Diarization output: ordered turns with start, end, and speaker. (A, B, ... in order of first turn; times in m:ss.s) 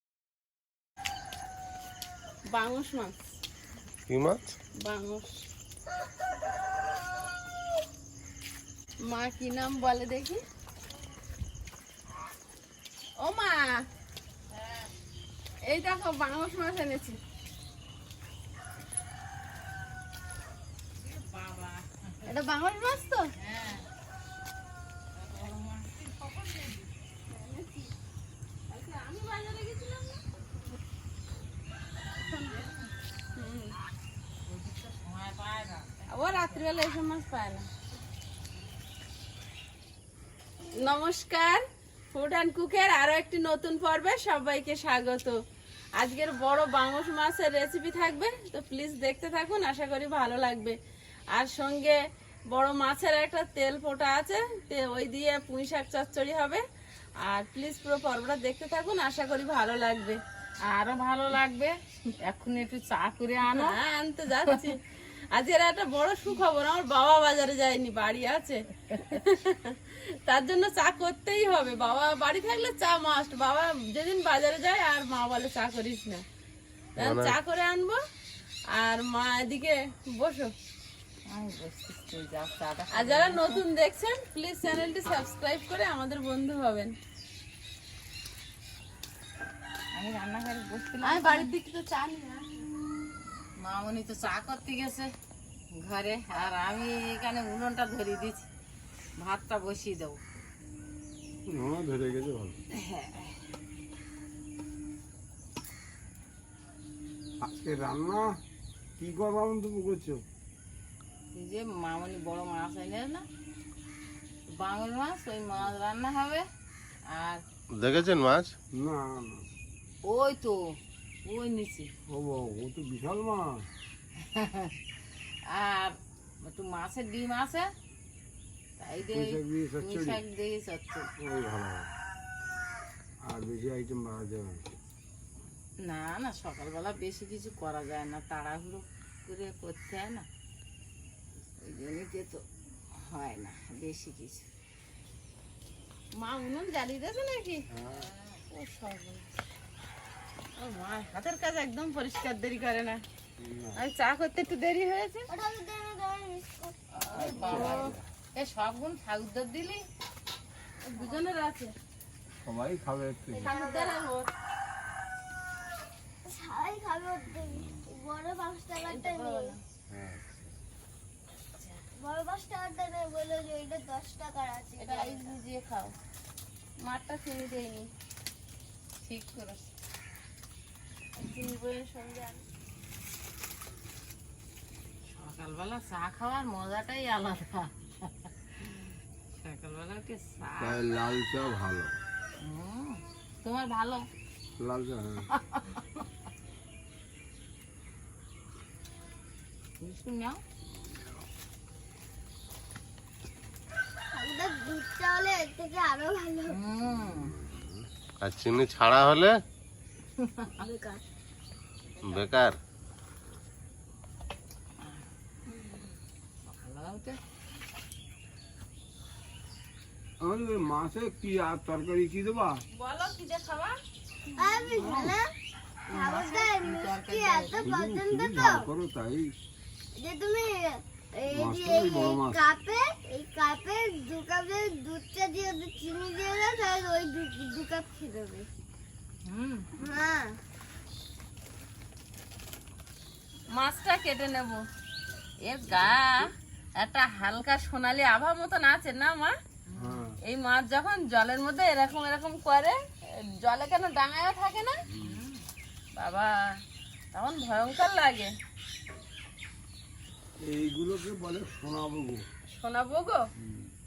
0:02.5-0:03.3 A
0:04.1-0:04.5 B
0:04.8-0:05.3 A
0:09.0-0:10.4 A
0:13.2-0:13.9 A
0:14.5-0:14.9 C
0:15.6-0:17.2 A
0:21.0-0:22.3 C
0:22.3-0:23.3 A
0:23.4-0:23.9 C
0:25.2-0:26.9 C
0:27.3-0:27.9 A
0:28.7-0:30.2 A
0:32.2-0:32.9 C
0:32.2-0:32.6 A
0:33.3-0:33.7 A
0:34.5-0:36.7 C
0:36.1-0:37.7 A
0:40.8-0:45.4 A
0:46.0-0:50.8 A
0:51.3-0:52.0 A
0:52.5-0:56.6 A
0:57.2-1:00.2 A
1:00.6-1:03.8 C
1:03.5-1:04.8 A
1:05.3-1:16.2 A
1:17.0-1:17.4 B
1:17.0-1:18.0 A
1:18.7-1:20.5 A
1:21.3-1:23.6 C
1:22.9-1:27.0 A
1:29.9-1:31.5 C
1:31.0-1:32.4 A
1:33.6-1:35.1 C
1:35.8-1:38.5 C
1:39.2-1:40.2 C
1:41.5-1:42.6 D
1:42.7-1:43.4 C
1:47.4-1:48.4 D
1:49.0-1:50.2 D
1:51.4-1:53.3 C
1:54.5-1:56.5 C
1:57.1-1:57.4 C
1:57.7-1:58.6 B
1:58.7-1:59.5 D
2:00.0-2:01.9 C
2:02.1-2:03.6 D
2:04.2-2:04.7 C
2:05.5-2:07.7 C
2:08.8-2:11.1 C
2:09.0-2:10.2 D
2:11.2-2:11.9 D
2:13.2-2:14.7 D
2:15.8-2:20.3 C
2:21.6-2:24.5 C
2:26.2-2:27.6 A
2:27.7-2:28.1 D
2:28.0-2:28.4 C
2:28.5-2:29.3 A
2:30.6-2:33.0 A
2:33.4-2:33.8 D
2:33.8-2:35.3 A
2:35.3-2:36.7 E
2:36.9-2:39.8 C
2:37.1-2:38.0 D
2:37.2-2:37.9 A
2:40.8-2:41.7 A
2:42.4-2:43.6 D
2:43.3-2:44.0 E
2:43.4-2:44.3 A
2:46.2-2:49.6 E
2:48.8-2:49.6 A
2:49.9-2:50.5 D
2:52.0-2:55.4 E
2:54.8-2:56.0 A
2:56.8-2:57.9 A
2:59.1-2:59.6 C
3:01.2-3:02.4 A
3:05.1-3:08.3 C
3:09.4-3:10.8 C
3:10.6-3:12.0 D
3:12.4-3:14.0 C
3:14.6-3:15.3 D
3:15.3-3:16.0 C
3:19.8-3:20.4 C
3:24.1-3:26.6 E
3:26.5-3:27.4 C
3:27.1-3:29.4 B
3:30.2-3:30.6 C
3:30.6-3:31.0 E
3:32.0-3:32.6 B
3:36.4-3:37.2 C
3:40.2-3:42.6 D
3:42.7-3:43.8 A
3:44.4-3:45.3 E
3:44.5-3:45.2 C
3:44.8-3:45.2 D
3:45.9-3:47.7 C
3:45.9-3:48.6 E
3:47.6-3:49.3 D
3:50.0-3:58.5 E
3:51.4-3:52.4 D
3:59.3-3:59.7 C
3:59.8-4:00.4 E
4:03.5-4:04.6 A
4:05.4-4:09.4 A
4:09.7-4:10.0 C
4:09.8-4:10.2 D
4:10.2-4:14.8 A
4:14.9-4:15.2 D
4:15.0-4:15.4 C
4:16.0-4:16.3 A
4:17.1-4:18.3 A
4:20.4-4:22.2 D
4:22.5-4:23.2 A
4:23.4-4:23.7 D